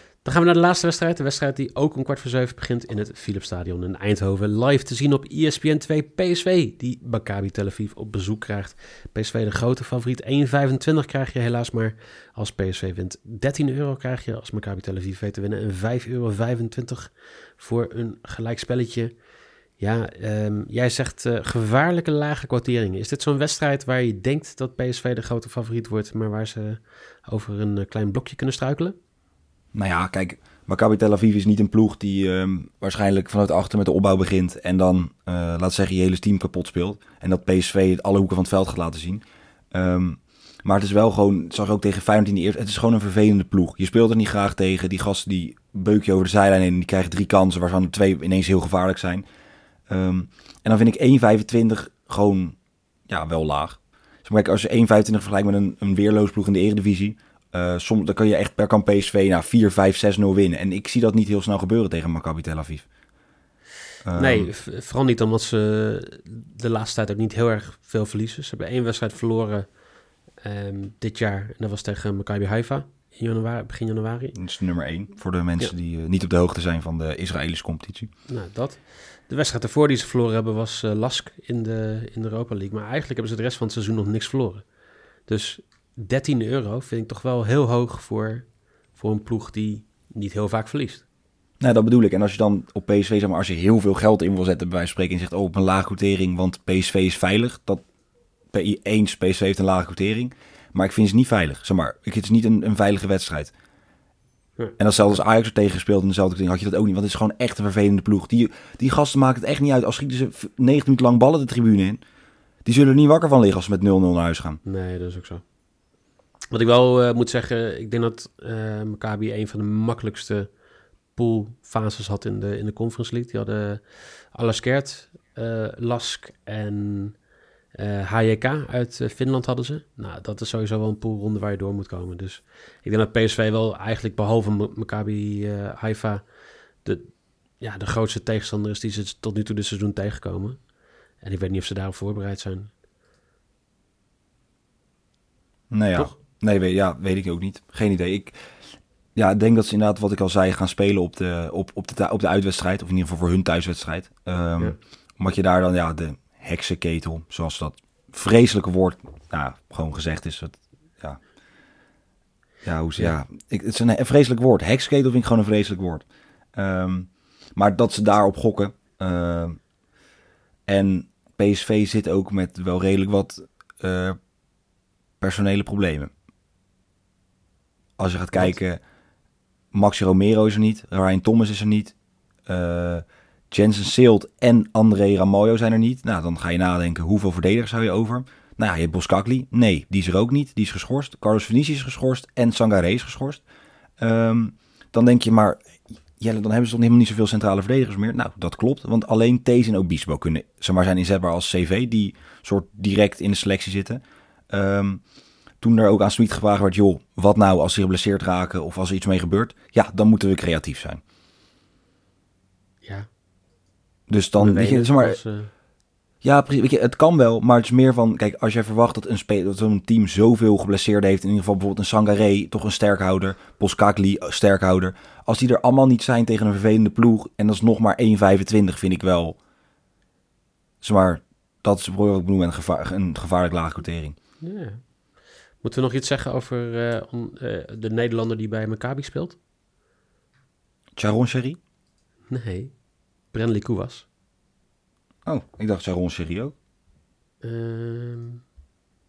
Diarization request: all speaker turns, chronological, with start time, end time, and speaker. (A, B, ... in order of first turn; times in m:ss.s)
0:00.2-0:19.1 A
0:19.8-0:28.9 A
0:29.7-0:49.2 B
0:49.9-0:52.6 B
0:53.1-1:02.8 B
1:04.0-1:04.5 B
1:04.2-1:09.7 A
1:10.4-1:14.3 A
1:14.3-1:18.1 B
1:18.3-1:24.6 A
1:25.3-1:31.0 A
1:31.6-1:37.8 B
1:38.5-1:43.5 B
1:44.8-1:52.0 B
1:52.6-1:54.6 B
1:54.6-1:55.4 A
1:56.5-2:00.5 A
2:01.1-2:07.2 A
2:07.8-2:16.2 A
2:16.8-2:20.7 A
2:21.2-2:22.7 A
2:25.7-2:28.3 B
2:29.1-2:41.2 B
2:42.6-2:49.6 B
2:50.7-2:54.2 B
2:55.2-2:56.1 B
2:58.0-2:58.8 B
2:59.7-3:01.9 B
3:02.5-3:13.4 B
3:14.0-3:25.0 B
3:25.6-3:31.0 B
3:34.1-3:35.2 B
3:34.4-3:35.5 A
3:36.2-3:49.4 B
3:50.8-3:54.1 B
3:54.4-3:54.8 A
3:55.6-3:59.4 A
4:01.0-4:01.6 B
4:02.3-4:02.7 A
4:03.3-4:04.0 A
4:05.2-4:06.5 B
4:07.4-4:08.4 A